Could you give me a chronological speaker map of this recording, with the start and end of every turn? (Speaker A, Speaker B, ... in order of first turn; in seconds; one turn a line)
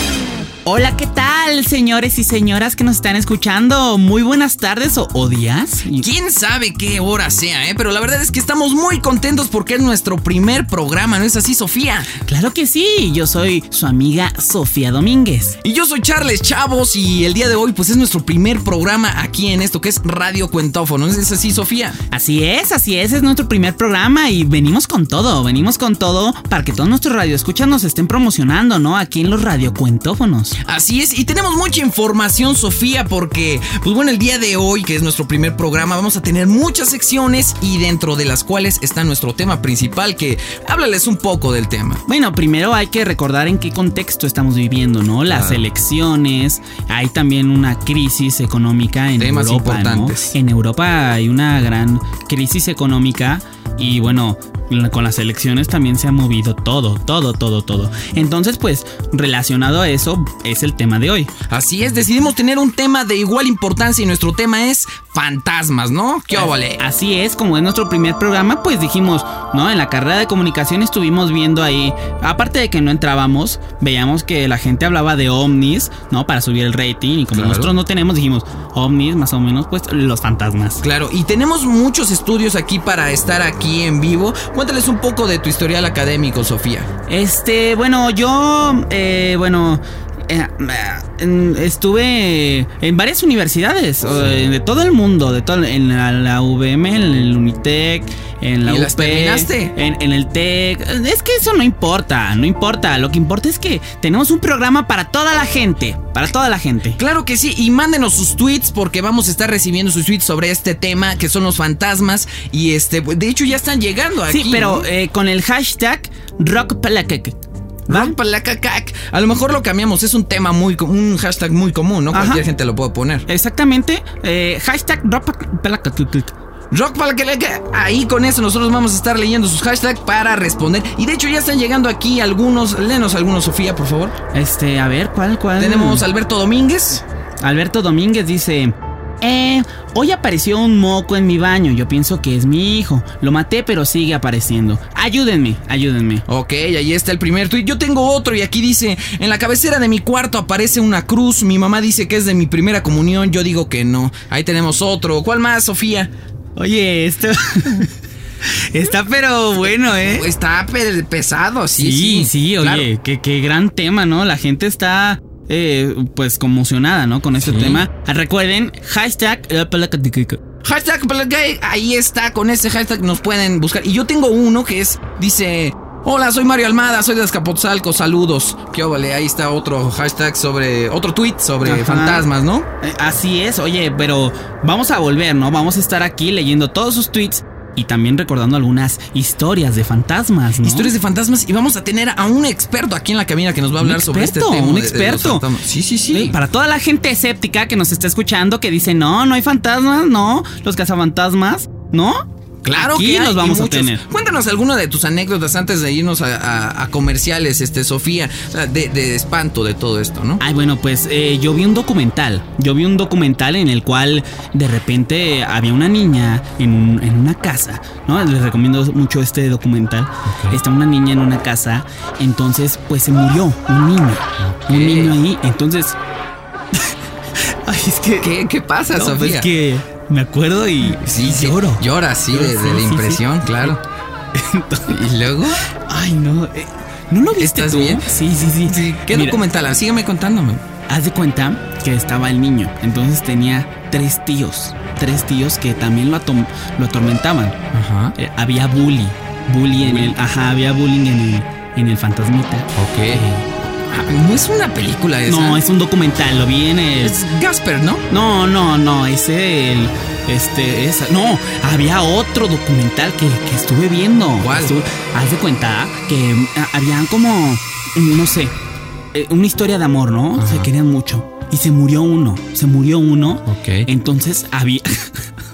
Speaker A: 0.7-6.1
Speaker B: 6.0-12.1
Speaker A: 12.2-15.6
Speaker B: 15.6-22.0
Speaker A: 22.1-30.6
Speaker B: 30.6-42.0
Speaker A: 42.1-61.3
Speaker B: 45.3-45.6
Speaker B: 49.2-50.3
Speaker B: 61.5-66.8
Speaker A: 66.3-80.8
Speaker B: 77.3-77.7
Speaker B: 80.8-86.9
Speaker A: 87.1-107.0
Speaker B: 98.7-99.7
Speaker B: 107.0-114.8
Speaker A: 114.3-117.3
Speaker A: 117.9-118.2
Speaker B: 117.9-123.2
Speaker A: 122.1-122.4
Speaker A: 123.3-126.3
Speaker B: 126.7-134.1
Speaker A: 134.3-136.1
Speaker B: 135.6-137.0
Speaker A: 137.4-146.2
Speaker B: 146.3-156.1
Speaker A: 156.6-157.9
Speaker A: 158.4-160.2
Speaker B: 160.0-162.9
Speaker A: 161.8-170.4
Speaker B: 167.4-167.8
Speaker B: 170.6-182.7
Speaker A: 181.6-182.2
Speaker A: 182.8-190.9
Speaker B: 190.6-196.4
Speaker A: 193.8-195.4
Speaker A: 196.1-204.0
Speaker B: 202.6-210.4
Speaker A: 210.4-226.0
Speaker B: 220.3-220.6
Speaker B: 224.4-225.2
Speaker A: 227.6-228.3
Speaker B: 228.2-229.5
Speaker A: 228.9-233.8
Speaker B: 231.0-233.8
Speaker A: 234.3-235.0
Speaker B: 234.9-235.6
Speaker A: 235.8-239.4
Speaker B: 237.4-238.1
Speaker B: 238.7-240.6
Speaker A: 240.9-247.6
Speaker B: 247.7-248.2
Speaker A: 248.2-253.4
Speaker B: 249.8-250.1
Speaker B: 252.8-253.2
Speaker B: 253.9-255.6
Speaker A: 255.3-257.2
Speaker B: 257.0-258.1
Speaker A: 258.1-268.5
Speaker B: 264.4-264.8
Speaker A: 269.1-275.1
Speaker B: 270.4-270.7
Speaker B: 273.5-273.9